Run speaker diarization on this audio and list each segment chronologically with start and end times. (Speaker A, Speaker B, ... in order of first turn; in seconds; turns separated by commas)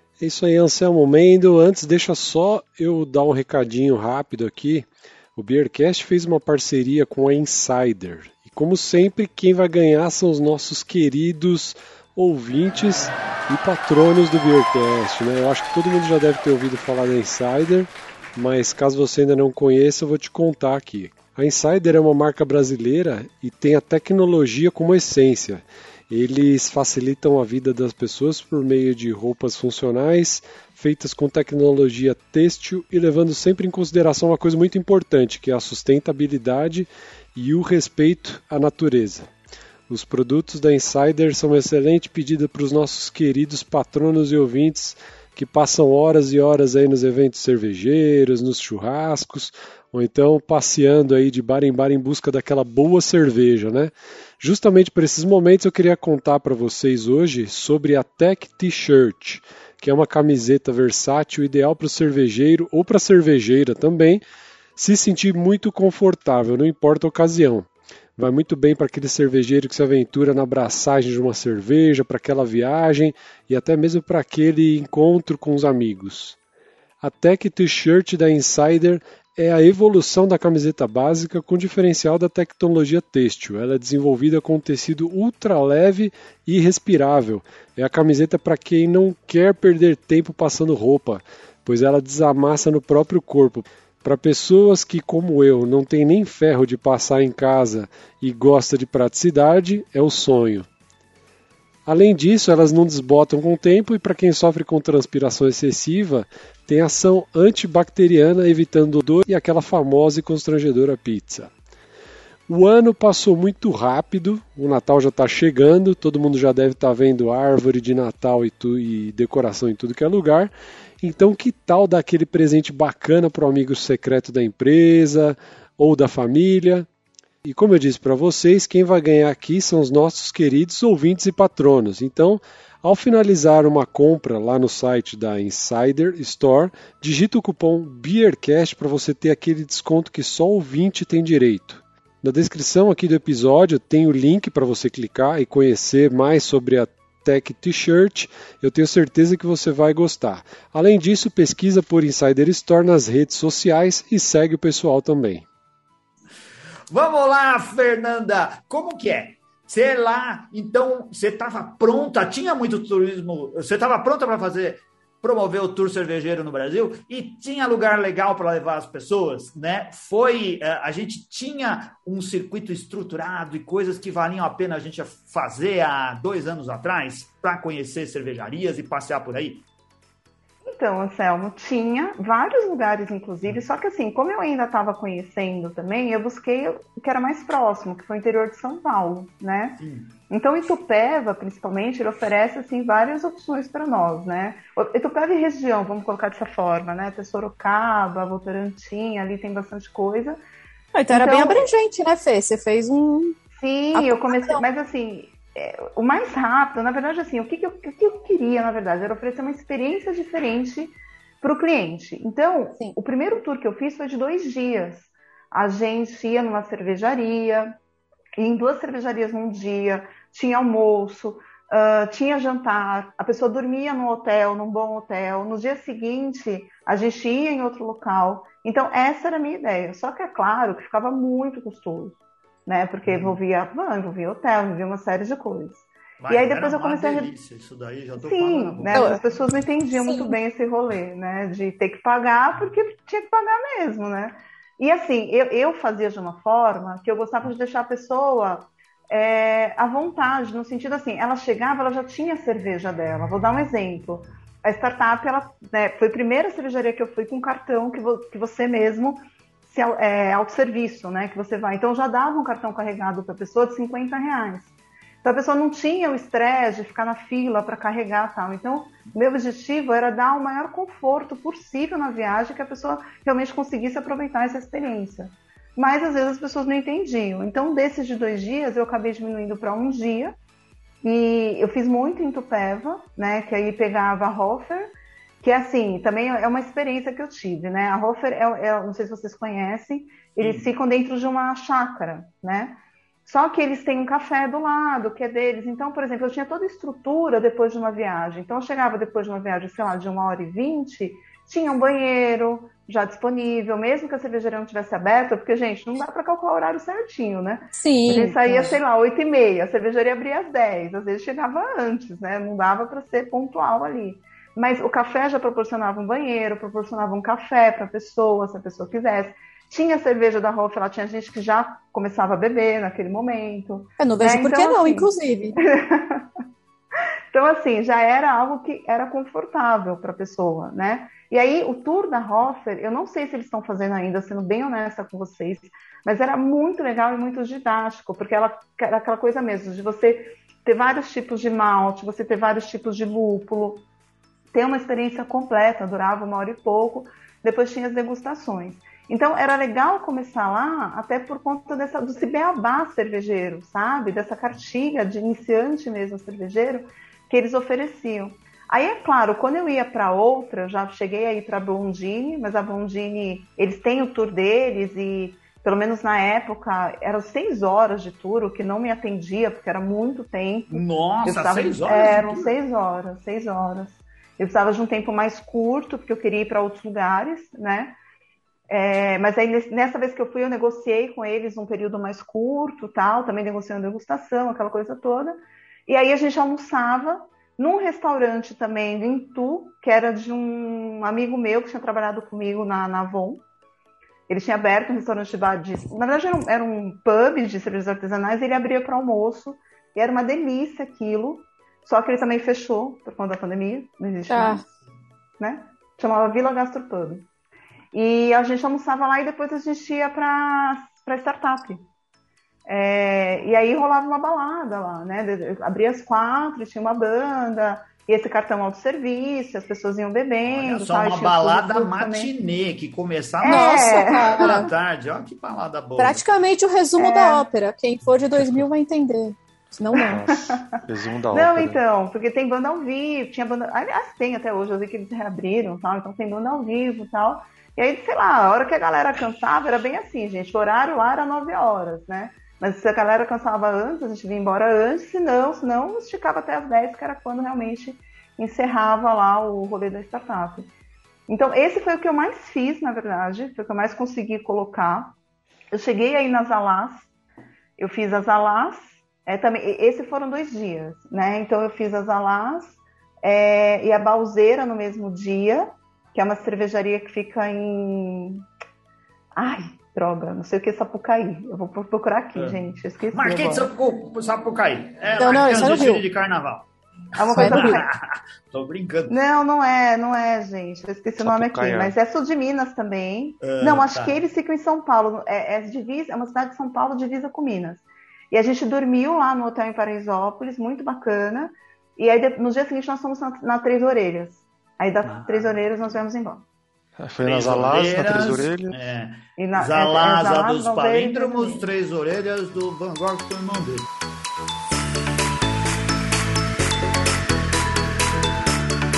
Speaker A: 0.2-39.3, Speaker A: 39.9-64.2, Speaker A: 64.8-76.4, Speaker A: 77.0-100.7, Speaker A: 101.8-111.5, Speaker A: 112.5-126.9, Speaker A: 127.4-155.4, Speaker B: 156.9-179.6, Speaker C: 180.6-200.4, Speaker B: 189.8-190.1, Speaker D: 200.9-203.4, Speaker C: 201.1-201.7, Speaker C: 203.6-217.7, Speaker D: 203.9-204.6, Speaker C: 218.4-237.3, Speaker B: 233.1-233.4, Speaker B: 236.2-239.2, Speaker C: 238.2-264.7, Speaker D: 238.9-239.2, Speaker D: 239.9-240.3, Speaker C: 265.2-280.3, Speaker C: 281.0-284.9, Speaker C: 285.4-326.2, Speaker B: 290.4-290.7, Speaker D: 307.7-308.8, Speaker D: 324.0-325.6, Speaker C: 327.3-343.9, Speaker C: 344.5-377.9, Speaker B: 370.7-372.5, Speaker C: 378.7-393.4, Speaker C: 394.3-404.6, Speaker D: 404.3-404.6, Speaker C: 405.4-407.2, Speaker C: 407.9-411.8, Speaker C: 412.7-422.3, Speaker B: 420.4-426.2, Speaker C: 423.4-424.6, Speaker D: 423.4-424.7, Speaker D: 426.0-430.2, Speaker C: 427.0-427.4, Speaker E: 430.0-431.8, Speaker C: 430.0-430.8, Speaker C: 431.3-450.7, Speaker C: 451.3-455.1, Speaker C: 455.7-457.1, Speaker C: 457.8-468.4, Speaker C: 469.4-473.7, Speaker B: 473.1-476.6, Speaker D: 475.2-476.0, Speaker C: 477.1-477.9, Speaker B: 477.3-479.1, Speaker D: 477.4-477.8, Speaker C: 479.1-496.4, Speaker E: 481.2-481.9, Speaker B: 483.4-484.2, Speaker B: 495.0-495.6, Speaker E: 497.0-498.8, Speaker B: 497.2-503.9, Speaker C: 499.4-501.7